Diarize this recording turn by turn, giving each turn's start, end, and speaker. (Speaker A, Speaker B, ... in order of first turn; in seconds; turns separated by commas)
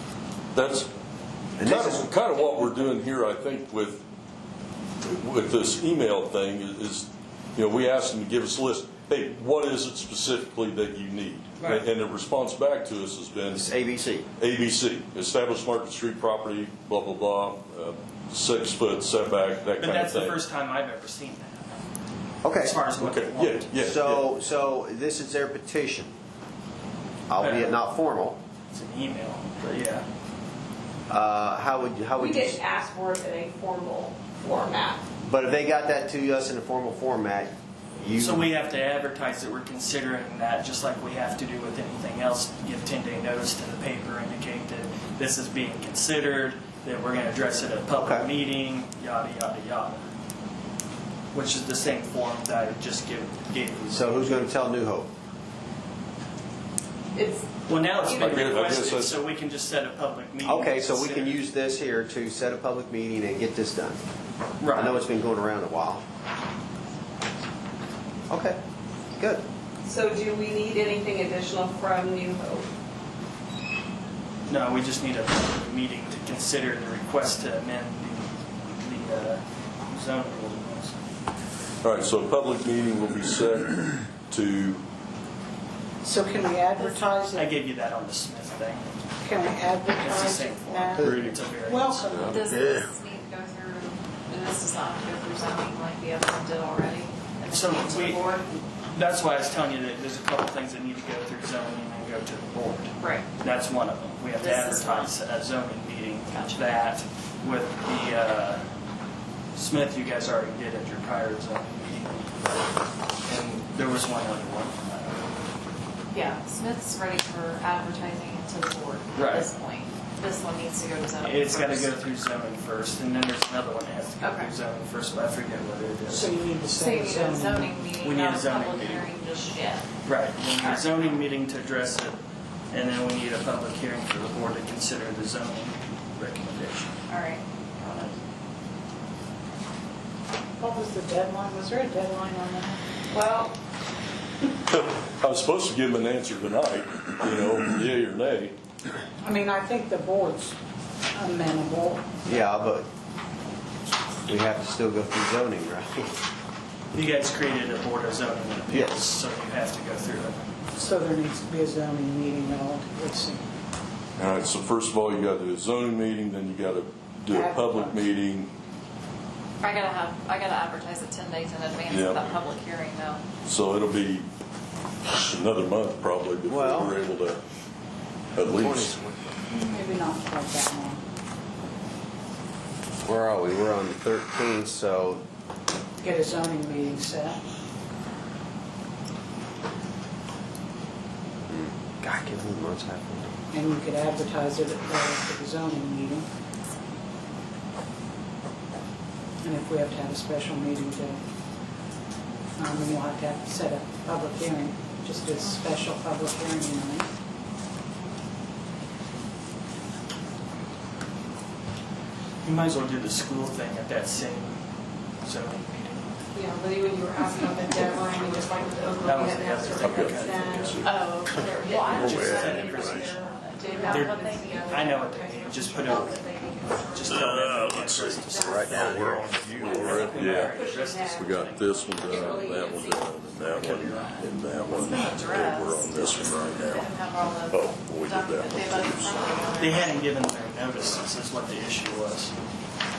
Speaker A: 0.5-0.9, Speaker B: 1.6-2.1, Speaker A: 1.6-4.0, Speaker A: 5.0-13.6, Speaker B: 13.5-14.3, Speaker A: 14.4-20.4, Speaker C: 19.8-21.8, Speaker B: 22.4-22.8, Speaker C: 22.5-23.7, Speaker A: 23.0-24.3, Speaker B: 23.8-26.1, Speaker B: 27.3-28.4, Speaker C: 27.4-27.8, Speaker C: 28.7-30.1, Speaker B: 31.1-32.6, Speaker D: 32.2-35.0, Speaker B: 35.2-38.5, Speaker C: 38.2-50.0, Speaker B: 48.0-48.3, Speaker C: 51.3-54.5, Speaker B: 53.9-55.1, Speaker D: 57.1-57.5, Speaker C: 57.7-61.4, Speaker A: 58.1-59.2, Speaker D: 58.1-58.4, Speaker B: 60.5-64.0, Speaker C: 64.6-65.0, Speaker B: 64.7-66.0, Speaker B: 68.3-68.6, Speaker B: 69.2-69.4, Speaker D: 69.8-72.7, Speaker C: 74.5-81.0, Speaker A: 81.8-84.8, Speaker E: 86.0-87.5, Speaker F: 86.8-87.1, Speaker C: 87.3-88.9, Speaker E: 89.2-92.4, Speaker C: 89.9-92.1, Speaker A: 91.0-91.3, Speaker A: 92.1-92.5, Speaker F: 92.3-98.6, Speaker C: 97.5-108.7, Speaker F: 103.0-103.3, Speaker F: 104.4-105.1, Speaker F: 106.3-106.8, Speaker C: 109.5-112.3, Speaker C: 113.2-115.4, Speaker F: 116.1-121.9, Speaker C: 119.2-119.5, Speaker C: 121.2-126.3, Speaker F: 124.2-124.5, Speaker E: 126.1-127.9, Speaker F: 126.7-129.9, Speaker C: 128.0-129.1, Speaker C: 130.0-132.2, Speaker F: 130.6-130.9, Speaker C: 132.7-137.0, Speaker F: 137.1-138.1, Speaker E: 140.6-142.8, Speaker D: 143.1-143.6, Speaker A: 144.7-148.6, Speaker E: 149.2-150.6, Speaker E: 151.1-152.5, Speaker B: 152.3-152.8, Speaker B: 154.3-156.1, Speaker C: 156.9-160.5, Speaker B: 158.7-159.0, Speaker E: 160.7-163.5, Speaker A: 164.2-168.5, Speaker E: 167.3-168.1, Speaker F: 169.6-173.2, Speaker A: 171.9-172.5, Speaker A: 173.4-174.3, Speaker A: 175.1-177.4, Speaker B: 176.5-177.0, Speaker A: 178.4-178.9, Speaker B: 178.4-179.4, Speaker E: 179.5-181.0, Speaker B: 183.0-185.2, Speaker E: 186.0-187.4, Speaker B: 191.5-193.3, Speaker E: 193.5-196.3, Speaker E: 199.4-201.2, Speaker E: 202.6-207.1, Speaker C: 212.4-214.6, Speaker C: 215.2-216.1, Speaker D: 216.3-227.6, Speaker C: 219.0-220.8, Speaker A: 219.8-221.4, Speaker F: 220.8-224.7, Speaker C: 221.8-223.3, Speaker A: 222.0-223.1, Speaker C: 223.8-226.3, Speaker C: 226.9-229.0, Speaker A: 227.1-230.6, Speaker D: 228.3-228.7, Speaker B: 228.4-229.3, Speaker D: 229.5-233.4, Speaker C: 229.7-231.7, Speaker A: 231.2-236.9, Speaker C: 233.6-234.2, Speaker F: 234.7-240.0, Speaker A: 237.5-239.6, Speaker C: 239.6-242.3